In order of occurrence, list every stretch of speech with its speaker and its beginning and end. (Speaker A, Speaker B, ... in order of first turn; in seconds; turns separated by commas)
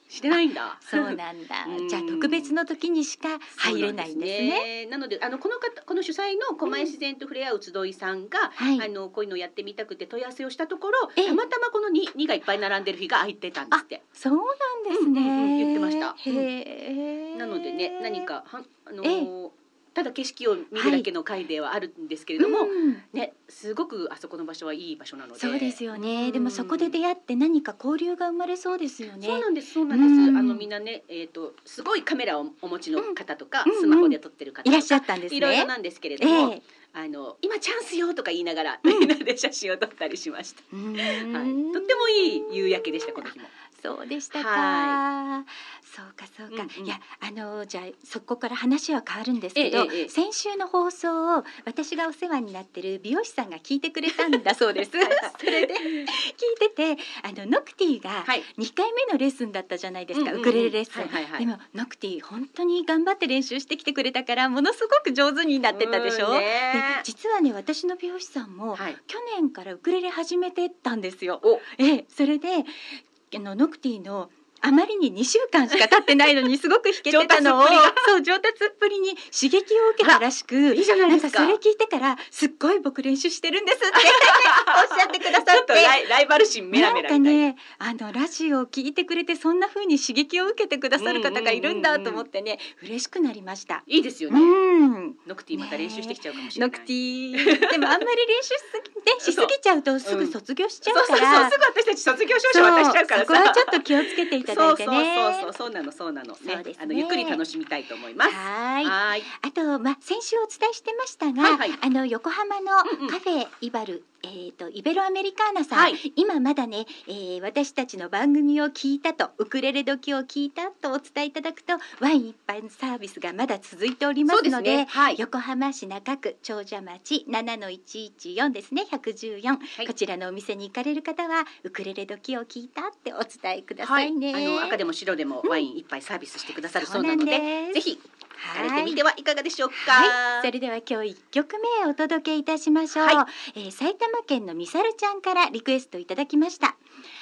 Speaker A: 0.1-2.5, Speaker B: 0.8-4.7, Speaker A: 3.5-14.0, Speaker B: 6.6-6.9, Speaker B: 8.6-8.8, Speaker B: 13.7-18.2, Speaker A: 14.9-16.5, Speaker A: 17.3-27.0, Speaker B: 19.0-19.3, Speaker B: 20.8-21.1, Speaker B: 22.4-23.0, Speaker B: 25.4-30.7, Speaker A: 29.2-43.5, Speaker B: 33.0-36.6, Speaker B: 40.7-41.9, Speaker B: 43.7-86.0, Speaker A: 44.3-45.0, Speaker A: 46.5-46.9, Speaker A: 49.5-50.1, Speaker A: 54.1-56.1, Speaker A: 60.1-61.5, Speaker A: 65.7-67.0, Speaker A: 77.0-78.1, Speaker A: 80.0-81.6, Speaker A: 84.0-87.5, Speaker B: 86.7-101.5, Speaker A: 91.0-92.2, Speaker A: 93.9-94.6, Speaker A: 95.2-98.0, Speaker A: 99.2-109.3, Speaker B: 102.5-105.5, Speaker B: 106.4-107.4, Speaker B: 108.2-134.8, Speaker A: 111.4-111.8, Speaker A: 112.9-113.2, Speaker A: 115.7-116.0, Speaker A: 124.3-125.2, Speaker A: 133.8-138.0, Speaker B: 136.8-137.8, Speaker B: 138.4-139.0, Speaker A: 138.5-140.5, Speaker B: 139.7-146.8